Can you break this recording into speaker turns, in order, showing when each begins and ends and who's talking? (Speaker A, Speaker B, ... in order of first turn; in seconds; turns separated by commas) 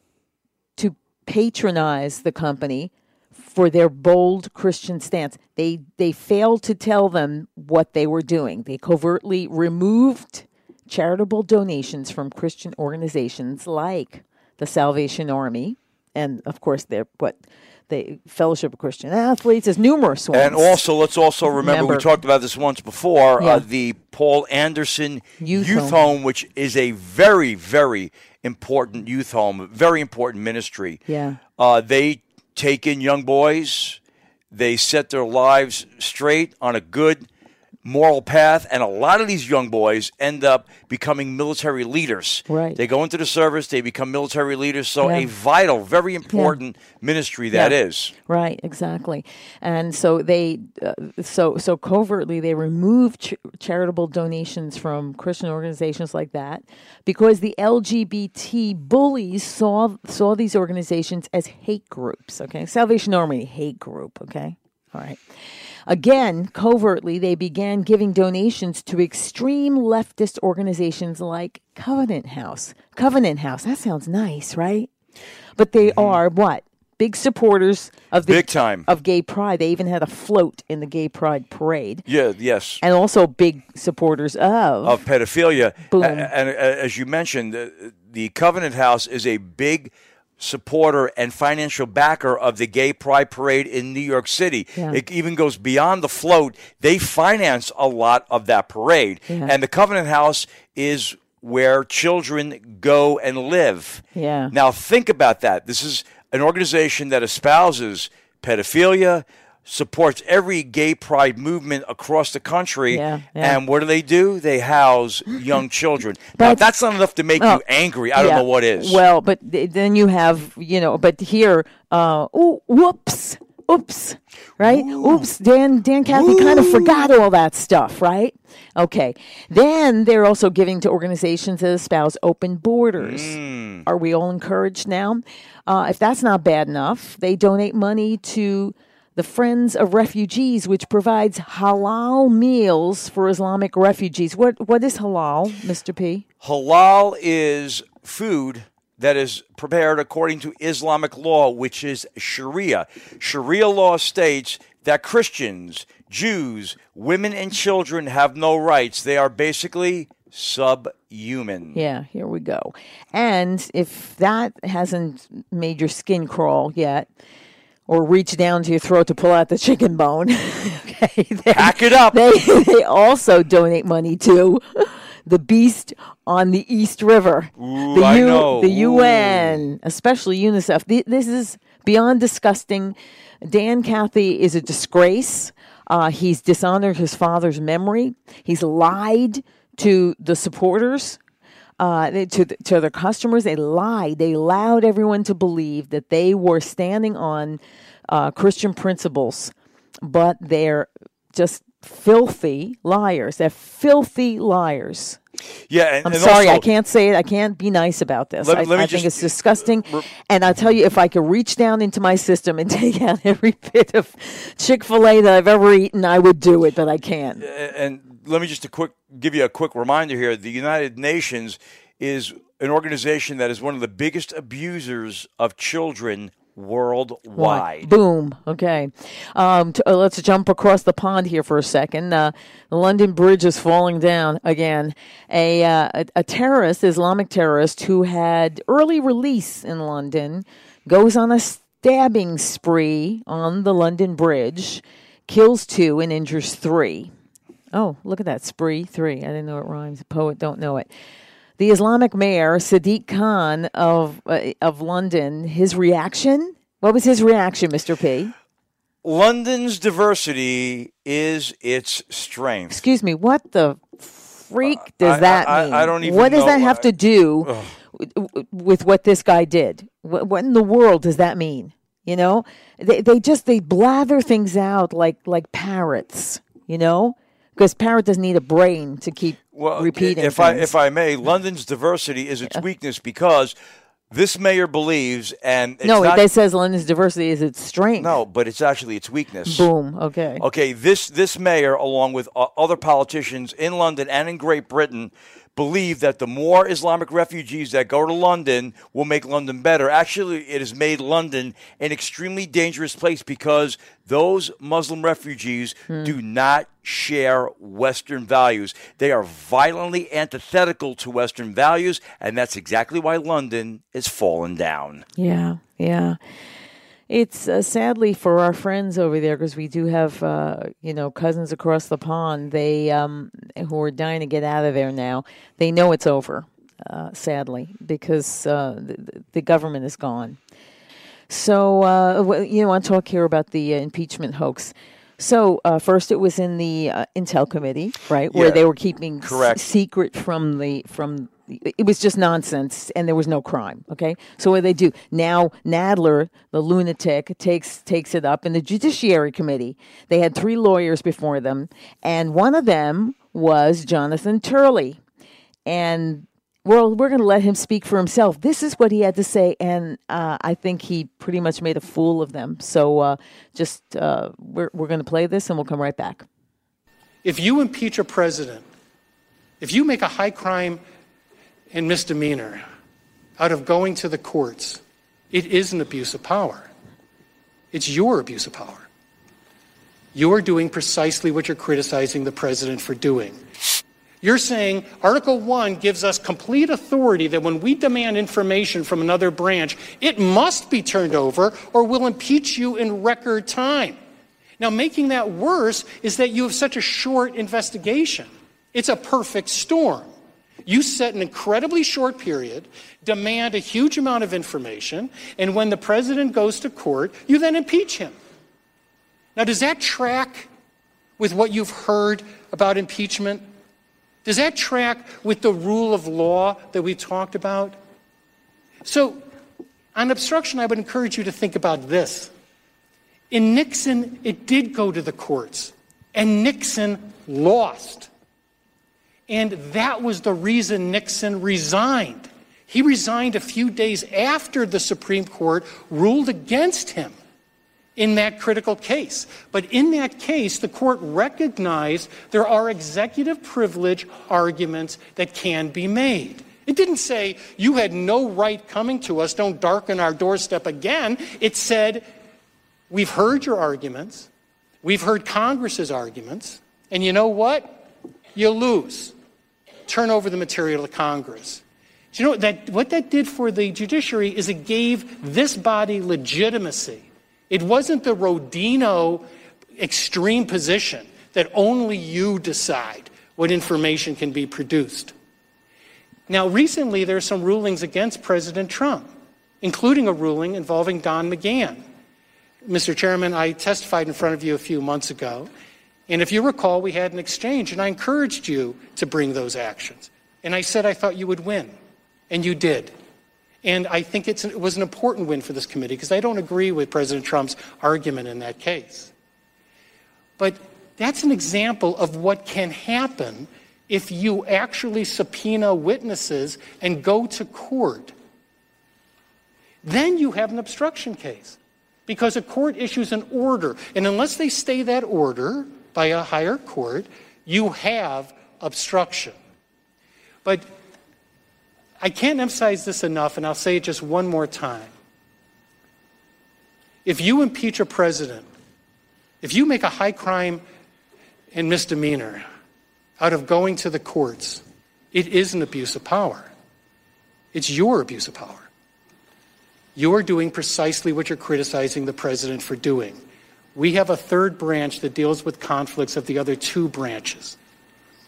Speaker A: 0.8-20.8, Speaker B: 20.3-31.0, Speaker A: 21.5-22.1, Speaker A: 23.4-23.6, Speaker A: 25.4-26.0, Speaker A: 31.1-31.4, Speaker B: 31.6-34.0, Speaker B: 34.5-37.3, Speaker B: 37.8-48.1, Speaker A: 42.5-42.8, Speaker A: 45.0-45.3, Speaker A: 46.3-46.6, Speaker A: 47.5-65.2, Speaker A: 65.9-74.9, Speaker A: 75.5-82.0, Speaker B: 75.8-76.2, Speaker B: 78.2-78.9, Speaker B: 82.0-82.8, Speaker A: 82.8-85.0, Speaker B: 84.8-119.0, Speaker A: 85.9-86.3, Speaker A: 99.3-99.5, Speaker A: 104.1-104.5, Speaker A: 112.9-113.6, Speaker A: 116.4-116.6, Speaker A: 118.1-146.2, Speaker B: 124.6-125.2, Speaker B: 126.1-127.1, Speaker B: 133.0-133.8, Speaker B: 146.4-161.8, Speaker A: 161.7-167.1, Speaker A: 167.9-191.2, Speaker B: 171.5-172.2, Speaker B: 177.6-179.6, Speaker A: 191.8-205.2, Speaker B: 205.7-206.7, Speaker A: 206.0-217.4, Speaker B: 208.4-210.1, Speaker B: 217.4-227.9, Speaker A: 227.3-247.1, Speaker A: 247.7-250.9, Speaker A: 251.6-258.3, Speaker B: 259.0-262.8, Speaker A: 262.7-280.7, Speaker B: 264.6-266.9, Speaker B: 267.4-267.8, Speaker B: 279.5-283.6, Speaker B: 284.1-286.2, Speaker A: 285.8-288.1, Speaker B: 288.0-289.7, Speaker A: 289.5-290.4, Speaker B: 290.4-315.1, Speaker A: 305.9-306.1, Speaker A: 315.2-316.2, Speaker A: 317.1-330.4, Speaker A: 331.3-355.0, Speaker B: 338.3-338.6, Speaker B: 339.2-339.6, Speaker A: 355.6-366.2, Speaker C: 367.2-368.7, Speaker C: 369.6-370.8, Speaker C: 371.7-372.6, Speaker C: 373.4-376.7, Speaker C: 377.7-378.9, Speaker C: 380.1-383.4, Speaker C: 384.2-394.0, Speaker C: 394.6-400.1, Speaker C: 400.6-408.2, Speaker C: 409.4-410.5, Speaker C: 411.2-413.4, Speaker C: 414.2-417.8, Speaker C: 418.8-419.2, Speaker C: 419.9-422.3, Speaker C: 423.3-428.1, Speaker C: 429.3-437.1, Speaker C: 437.9-452.1, Speaker C: 452.9-454.3, Speaker C: 454.8-459.1, Speaker C: 459.9-475.1, Speaker C: 476.3-481.9, Speaker C: 482.6-485.5, Speaker C: 486.1-491.8, Speaker C: 492.3-492.9, Speaker C: 493.6-499.1, Speaker C: 500.4-508.1, Speaker C: 509.8-519.4, Speaker C: 520.4-520.7, Speaker C: 522.0-524.9, Speaker C: 527.0-528.5, Speaker C: 529.4-530.6, Speaker C: 531.5-532.4, Speaker C: 533.2-536.5, Speaker C: 537.5-538.7, Speaker C: 539.9-543.2, Speaker C: 543.7-547.5